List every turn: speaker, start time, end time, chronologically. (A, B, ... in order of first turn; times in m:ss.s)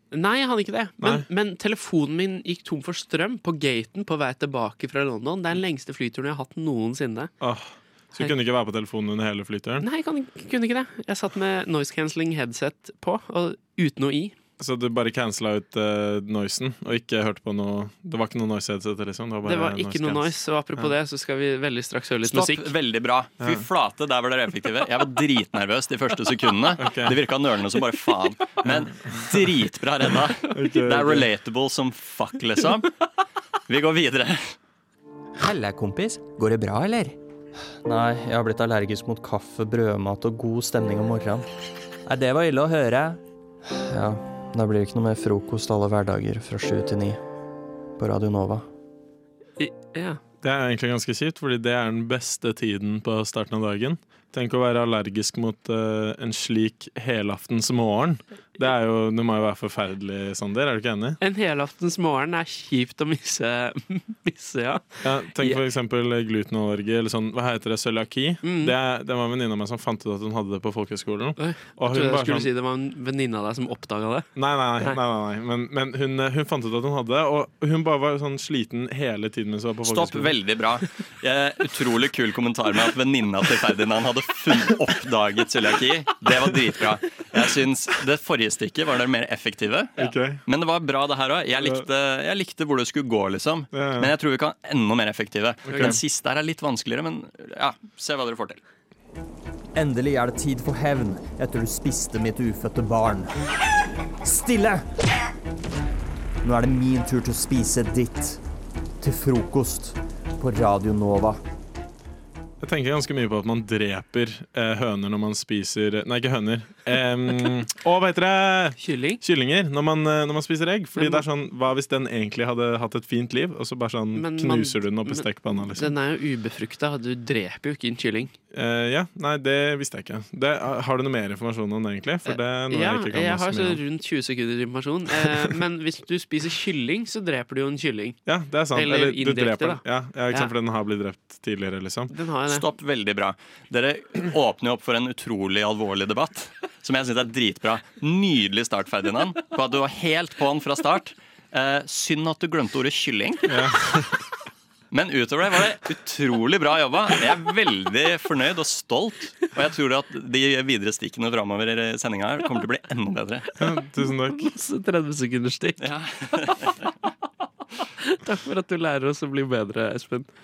0:00.1-0:07.5 A
0:01.0-0:01.3 B
0:07.4-0:09.9 B
0:08.1-0:08.4 A
0:09.8-0:14.4 A
0:14.6-0:20.9 B
0:19.4-0:22.7 A
0:22.2-0:32.9 C
0:23.4-0:23.7 B
0:26.8-0:27.2 B
0:28.7-0:29.2 B
0:30.5-0:31.3 B
0:33.7-0:34.6 C
0:35.4-0:37.2 C
0:37.8-0:41.5 C
0:42.1-0:47.2 C
0:48.0-0:48.6 C
0:49.6-0:50.2 A
0:50.4-1:01.2 B
1:01.2-1:05.6 A
1:05.0-1:12.5 B
1:08.4-1:08.8 A
1:11.4-1:15.0 A
1:14.4-1:20.3 B
1:19.8-1:38.6 C
1:30.0-1:30.4 B
1:31.6-1:31.8 B
1:33.7-1:34.1 B
1:35.7-1:36.0 B
1:39.8-1:43.4 D
1:44.2-1:44.8 D
1:46.4-1:48.4 D
1:49.0-1:51.4 D
1:52.6-2:06.0 B
1:58.8-1:59.2 A
2:01.0-2:01.2 A
2:04.1-2:08.4 A
2:08.5-2:13.8 B
2:12.2-2:20.5 A
2:18.2-2:22.1 B
2:22.1-2:22.7 A
2:22.5-2:34.1 C
2:33.5-2:34.1 B
2:34.9-2:43.5 C
2:43.6-2:44.5 B
2:44.0-2:46.5 A
2:45.8-2:46.7 C
2:48.2-2:50.3 A